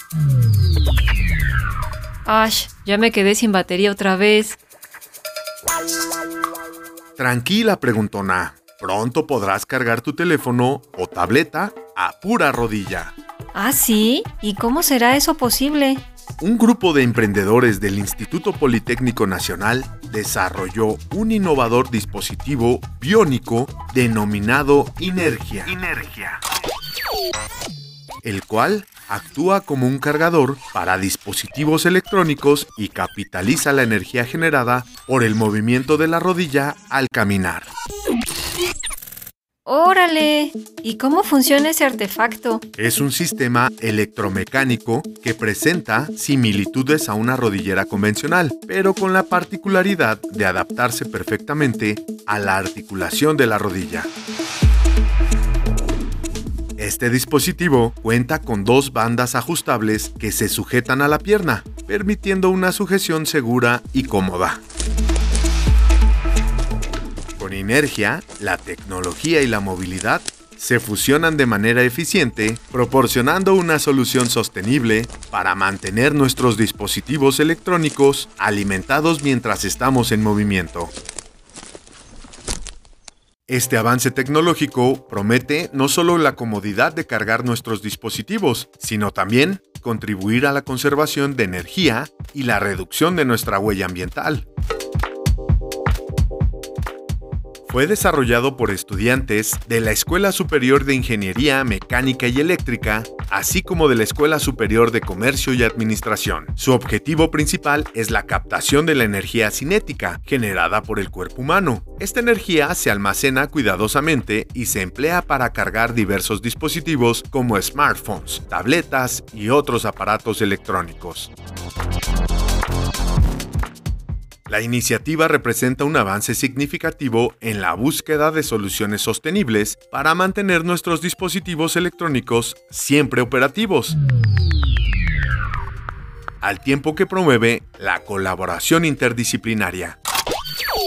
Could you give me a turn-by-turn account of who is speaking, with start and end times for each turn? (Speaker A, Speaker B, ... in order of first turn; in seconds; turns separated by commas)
Speaker A: 2.2-4.6, Speaker B: 7.2-13.1, Speaker A: 13.5-16.1, Speaker B: 16.4-26.4, Speaker B: 28.2-37.7, Speaker A: 39.6-42.6, Speaker B: 42.8-54.1, Speaker B: 56.8-64.6, Speaker B: 67.4-80.9, Speaker B: 83.5-94.5, Speaker B: 97.7-121.3, Speaker B: 124.5-134.0, Speaker B: 136.4-140.0